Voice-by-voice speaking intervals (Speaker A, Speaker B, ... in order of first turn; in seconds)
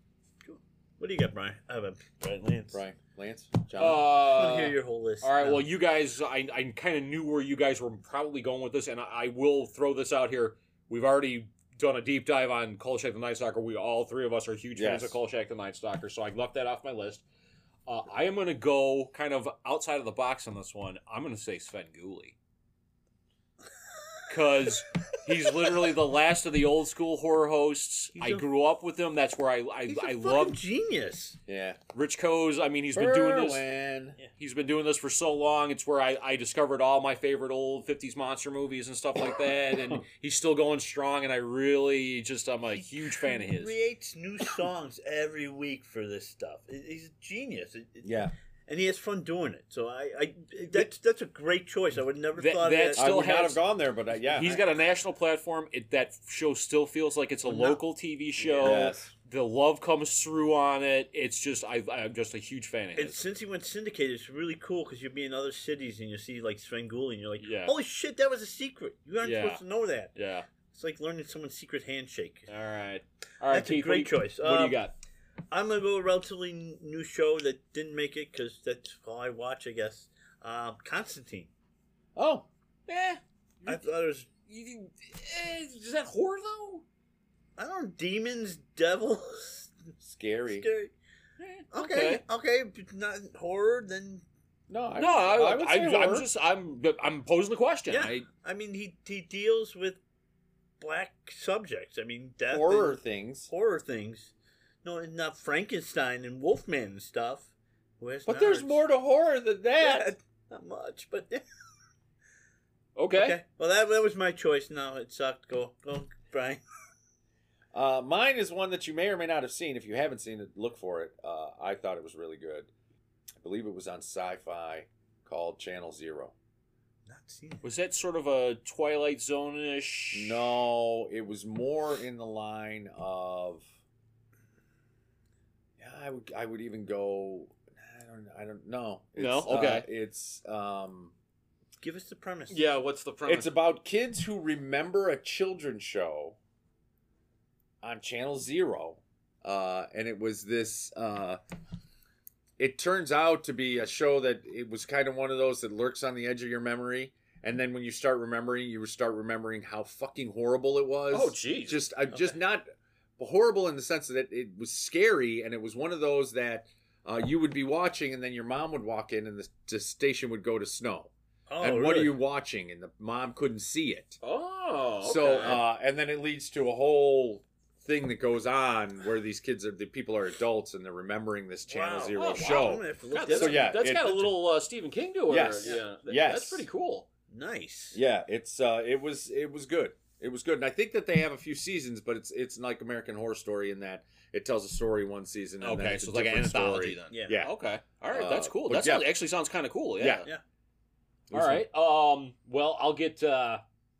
Speaker A: 0.4-2.8, 4.1-5.7, 28.1-28.4, 29.9-31.4, 42.7-48.1, 48.7-53.1, 57.4-57.8, 58.4-58.9, 63.0-70.1, 70.7-72.5, 73.5-74.8, 75.5-81.5, 83.7-84.3, 87.6-89.8, 90.5-90.9, 91.7-94.2, 97.9-100.0, 100.8-104.3, 104.8-108.8, 109.8-111.4, 113.1-116.6, 127.1-127.7, 141.8-142.6, 171.5-172.2, 181.7-183.8, 187.3-188.0, 197.1-197.4
Speaker B: 2.7-4.1, 14.7-15.2, 31.5-31.8, 32.9-34.2, 48.0-48.3, 53.0-54.6, 58.6-59.1, 82.1-82.5, 90.1-90.7, 94.7-96.3, 102.5-103.5, 108.2-110.1, 117.7-122.7, 123.4-126.3, 130.1-133.7, 135.8-141.1, 143.2-146.3, 147.8-151.4, 152.6-174.2, 175.0-184.4, 185.3-186.7, 187.9-197.5, 198.1-199.1, 200.0-200.3, 201.3-201.6
Speaker C: 3.8-17.2, 17.9-22.3, 24.3-30.6, 31.9-33.6, 34.3-43.7, 52.4-63.2, 67.4-67.7, 69.2-69.6, 70.1-70.5, 72.5-74.9, 82.9-83.8, 84.5-86.8, 91.4-92.2, 95.0-98.2, 113.0-113.4, 127.6-130.4, 139.2-139.9, 142.5-143.5, 161.1-161.9, 174.2-175.6, 182.1-187.1, 195.6-200.3, 201.3-203.6